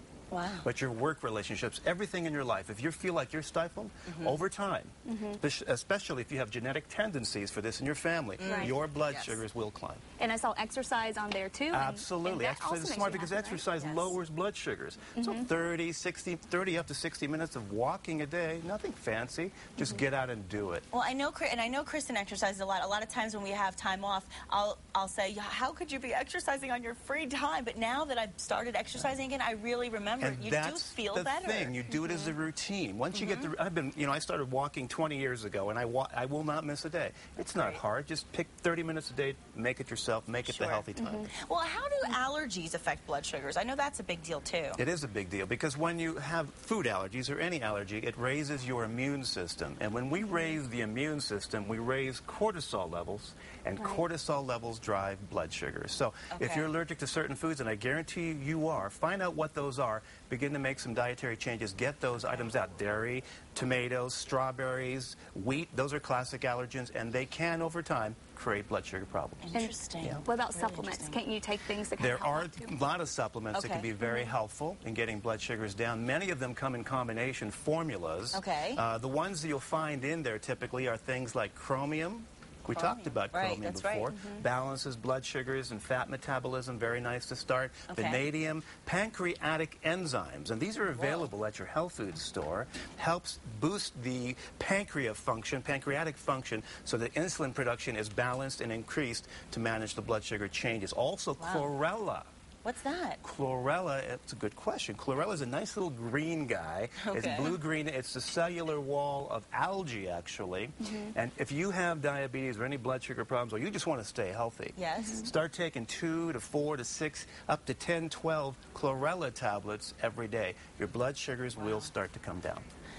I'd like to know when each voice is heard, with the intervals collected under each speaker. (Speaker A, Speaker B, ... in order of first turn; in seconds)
Speaker A: 0.3-0.7, 4.0-4.4, 8.4-9.4, 20.9-31.7, 33.1-33.5, 37.4-37.8, 40.5-44.8, 56.3-56.7, 69.4-71.2, 73.5-73.9, 78.3-78.8, 82.7-84.4, 87.9-88.2, 90.9-91.3, 101.4-101.7, 102.6-103.2, 107.0-107.6, 114.7-115.3, 121.6-121.9
Speaker B: 0.6-10.0, 11.7-20.8, 30.2-41.3, 44.8-69.5, 72.0-102.3, 103.2-122.6
Speaker C: 5.0-5.4, 8.4-8.7, 10.2-14.1, 15.1-15.5, 31.9-32.3, 41.0-41.3, 53.8-54.0, 69.5-72.8, 74.0-74.3, 110.8-111.1, 115.0-115.3